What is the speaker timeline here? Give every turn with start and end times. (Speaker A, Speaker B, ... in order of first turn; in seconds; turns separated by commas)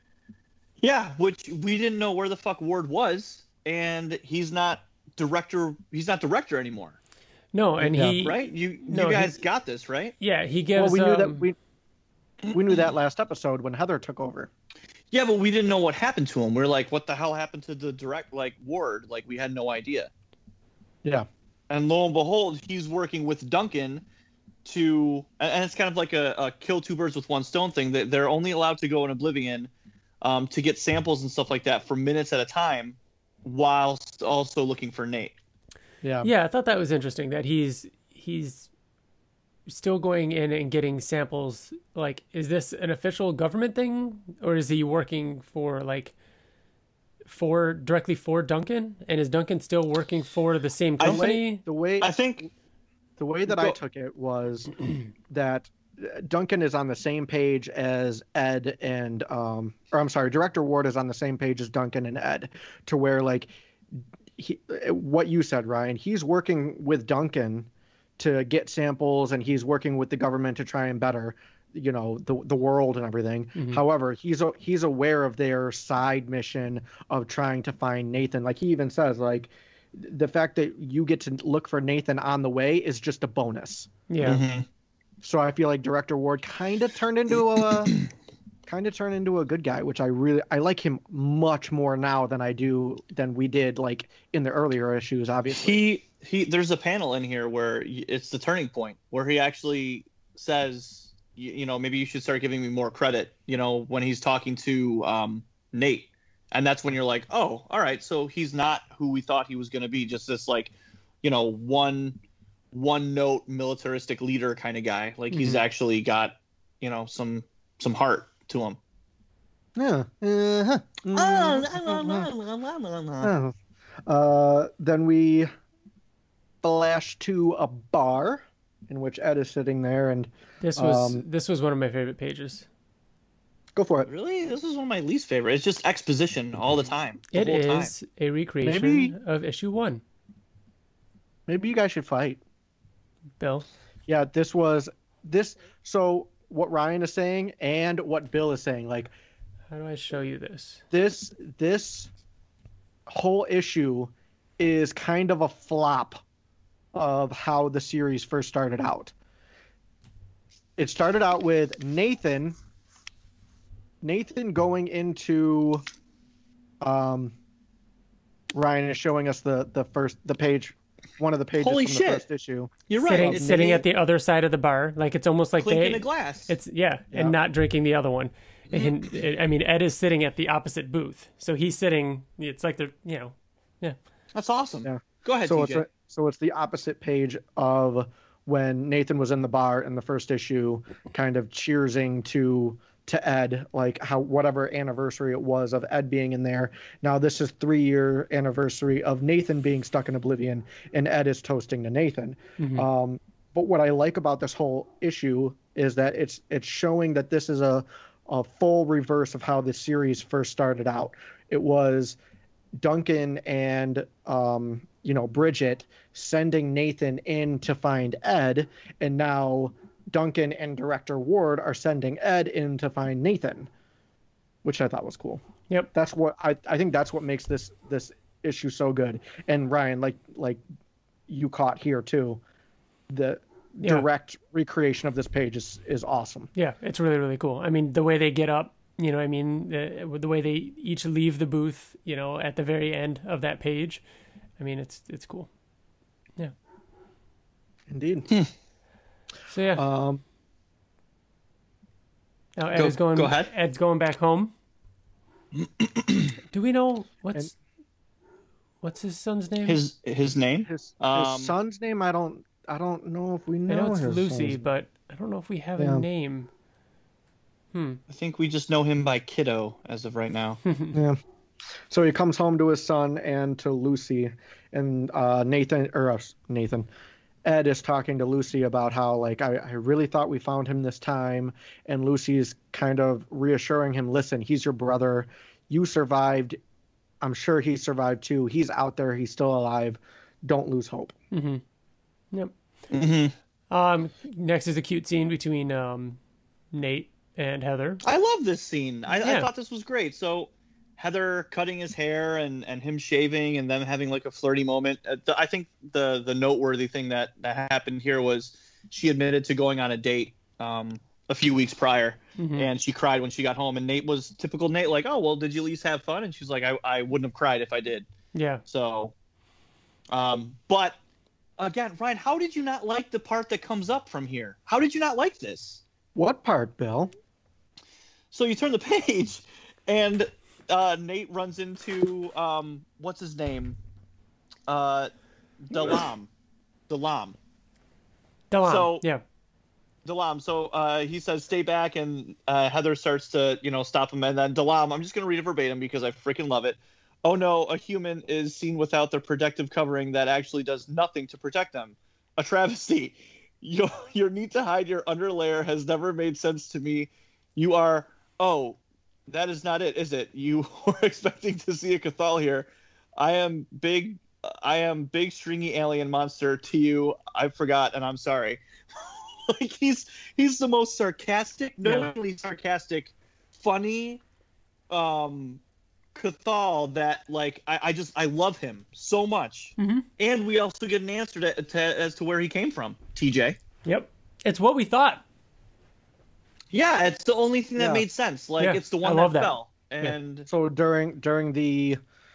Speaker A: 0.8-7.0, Speaker B: 7.5-9.4, Speaker C: 7.8-8.2, Speaker A: 8.1-10.1, Speaker B: 10.2-11.4, Speaker C: 10.7-11.6, Speaker C: 12.5-14.5, Speaker A: 15.1-20.1, Speaker A: 21.7-24.0, Speaker A: 24.6-35.4, Speaker C: 36.0-36.3, Speaker B: 36.2-38.7, Speaker B: 39.7-46.1, Speaker B: 47.2-51.6, Speaker C: 51.0-52.1, Speaker A: 51.0-51.2, Speaker A: 52.0-52.5, Speaker C: 53.2-84.4, Speaker A: 53.5-53.8, Speaker B: 73.5-73.8, Speaker B: 84.1-84.4, Speaker A: 84.2-84.7, Speaker C: 85.2-88.0, Speaker C: 88.7-95.8, Speaker A: 95.5-112.2, Speaker A: 112.7-118.8, Speaker C: 115.3-115.6, Speaker C: 119.8-122.3, Speaker A: 121.1-123.3, Speaker C: 123.2-123.5, Speaker C: 124.0-125.5, Speaker C: 126.6-131.2, Speaker B: 130.6-132.7, Speaker C: 133.8-134.1, Speaker A: 134.1-137.9, Speaker B: 137.3-140.0, Speaker C: 138.6-139.1, Speaker C: 141.5-142.4, Speaker B: 143.4-143.7, Speaker C: 144.1-149.1, Speaker B: 149.7-150.8, Speaker C: 150.9-152.1, Speaker C: 153.1-156.2, Speaker C: 156.9-159.1, Speaker C: 160.8-162.6, Speaker C: 164.0-165.8, Speaker C: 166.8-167.3, Speaker C: 168.5-173.7, Speaker A: 171.6-172.2, Speaker A: 172.9-173.8, Speaker B: 173.0-183.9, Speaker A: 175.6-176.5, Speaker A: 178.7-178.9, Speaker A: 184.3-185.8, Speaker C: 184.8-212.2, Speaker B: 202.6-202.8, Speaker C: 212.8-223.7, Speaker C: 224.6-225.4, Speaker C: 225.9-230.6, Speaker C: 231.3-232.4, Speaker C: 233.1-236.5, Speaker B: 233.8-234.1, Speaker B: 236.6-244.0, Speaker B: 244.6-245.5, Speaker C: 247.9-248.3, Speaker B: 249.5-249.8, Speaker C: 249.8-250.2, Speaker B: 252.6-254.5, Speaker A: 252.7-253.5, Speaker B: 256.5-257.5, Speaker B: 258.8-259.8, Speaker A: 259.6-261.6, Speaker C: 260.7-264.6, Speaker B: 263.7-266.5, Speaker C: 265.8-266.0, Speaker B: 267.7-268.0, Speaker A: 268.1-270.6, Speaker B: 270.6-271.0, Speaker C: 270.9-271.2, Speaker C: 271.9-276.9, Speaker C: 277.4-286.6, Speaker C: 287.2-291.1, Speaker B: 291.3-291.6, Speaker A: 292.9-293.3, Speaker B: 293.7-296.2, Speaker B: 296.7-298.0, Speaker A: 298.0-318.1, Speaker B: 299.2-299.5, Speaker B: 312.4-312.7, Speaker B: 318.3-318.6, Speaker A: 318.7-319.1, Speaker A: 320.1-321.0, Speaker A: 321.6-325.8, Speaker C: 326.1-327.1, Speaker A: 328.3-333.8, Speaker A: 334.7-335.1, Speaker A: 335.6-336.3, Speaker A: 336.9-337.4, Speaker B: 338.5-339.2, Speaker A: 338.6-339.1, Speaker A: 340.0-374.2, Speaker B: 371.8-372.1, Speaker A: 374.9-375.6, Speaker A: 376.1-383.6, Speaker B: 379.8-380.1, Speaker B: 383.8-385.2, Speaker A: 386.7-390.5, Speaker C: 387.8-388.0, Speaker B: 388.6-390.1, Speaker C: 390.5-392.0